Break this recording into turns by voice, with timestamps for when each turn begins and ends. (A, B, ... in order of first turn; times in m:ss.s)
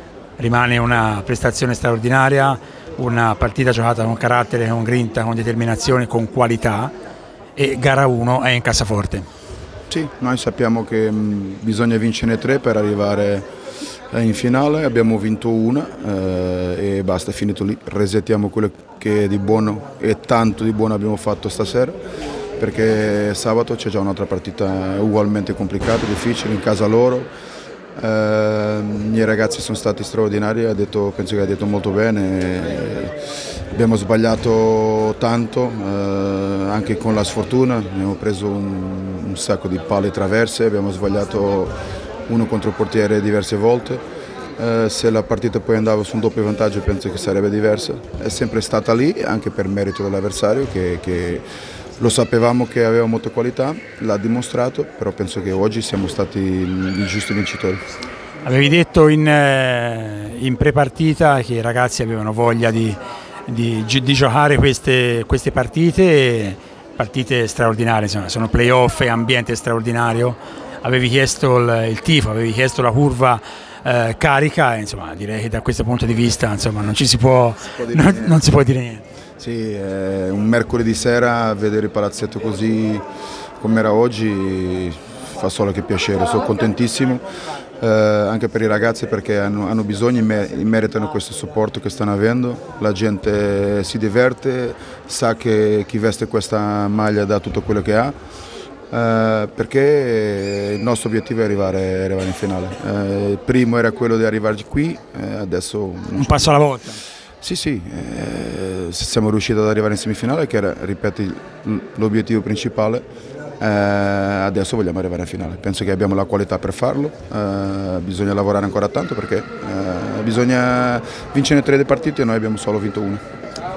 0:00.4-0:06.9 A
0:07.6-0:09.3 A
0:09.9-0:13.4 B
0:14.1-0:22.0 B
0:22.6-0:27.3 B
0:28.0-0:33.1 B
0:33.7-0:41.7 B
0:42.3-0:44.0 B
0:44.6-0:51.4 B
0:52.0-0:57.8 B
0:58.4-1:19.0 A
1:17.8-1:18.4 B
1:19.4-1:23.0 B
1:23.6-1:27.2 B
1:27.8-1:38.1 B
1:38.9-1:46.5 B
1:46.1-1:47.0 A
1:47.4-1:53.0 B
1:53.6-2:03.2 B